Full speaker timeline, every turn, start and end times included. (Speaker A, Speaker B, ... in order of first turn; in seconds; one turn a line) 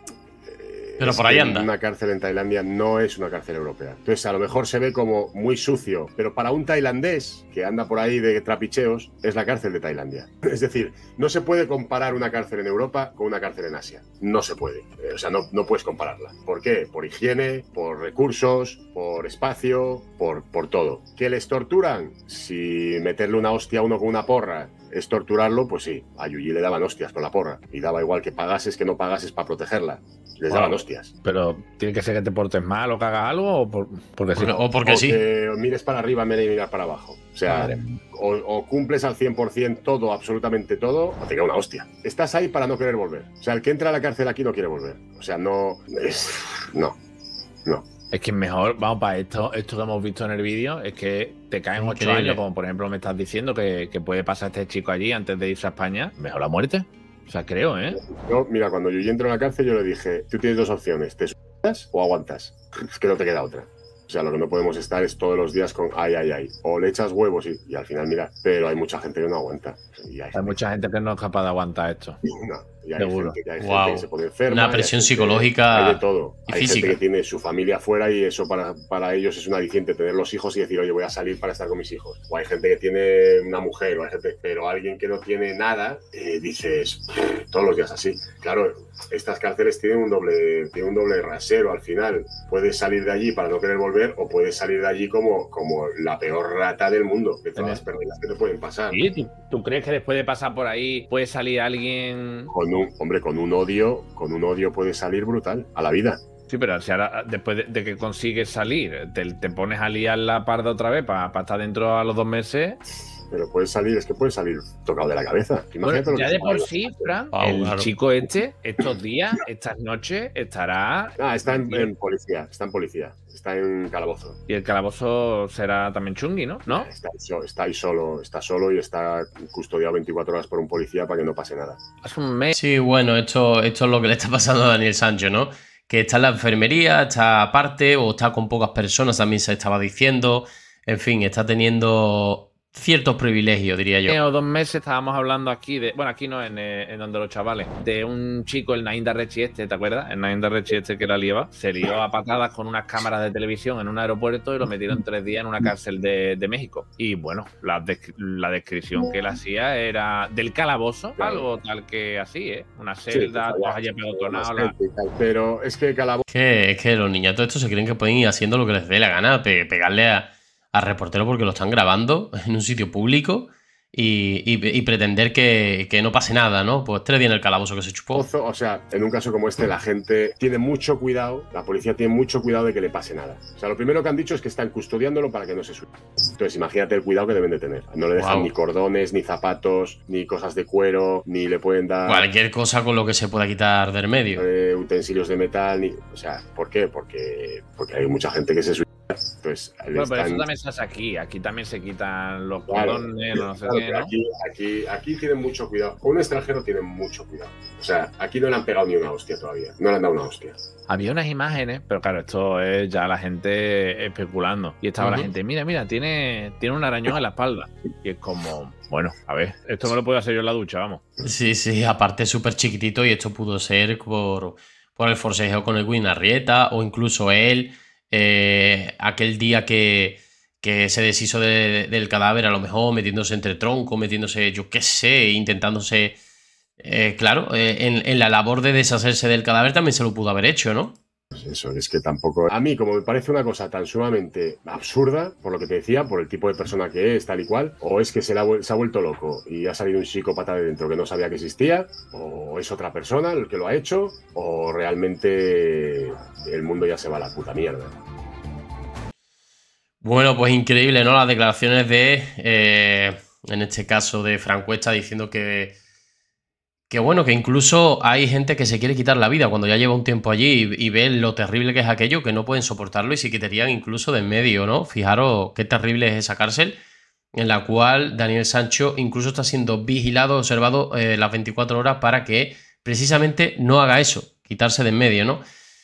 Speaker A: 0.5-31.1
Speaker B: 1.0-1.7
Speaker C: 30.5-34.6
Speaker B: 34.4-35.2
Speaker A: 34.8-47.0
Speaker C: 37.5-38.0
Speaker C: 48.1-58.0
Speaker B: 51.8-52.4
Speaker A: 58.0-70.6
Speaker C: 70.3-72.2
Speaker A: 72.3-99.0
Speaker C: 73.0-73.4
Speaker B: 73.6-77.0
Speaker C: 97.5-97.8
Speaker C: 98.9-102.5
Speaker A: 102.5-106.2
Speaker C: 106.5-112.8
Speaker A: 113.3-117.1
Speaker C: 115.8-121.9
Speaker B: 117.3-117.9
Speaker A: 121.2-124.4
Speaker C: 124.5-126.9
Speaker A: 126.7-131.8
Speaker C: 132.0-132.6
Speaker B: 132.5-144.2
Speaker C: 144.1-164.7
Speaker A: 161.2-161.5
Speaker A: 163.1-166.2
Speaker B: 166.3-178.2
Speaker A: 178.1-185.8
Speaker A: 186.3-192.3
Speaker B: 188.2-188.5
Speaker B: 192.1-194.5
Speaker A: 194.3-200.4
Speaker C: 199.9-204.1
Speaker A: 202.7-210.6
Speaker C: 210.9-221.0
Speaker B: 215.0-215.3
Speaker B: 221.2-236.2
Speaker B: 236.8-240.9
Speaker A: 241.3-257.9
Speaker B: 260.0-265.7
Speaker B: 266.9-276.8
Speaker B: 277.3-285.4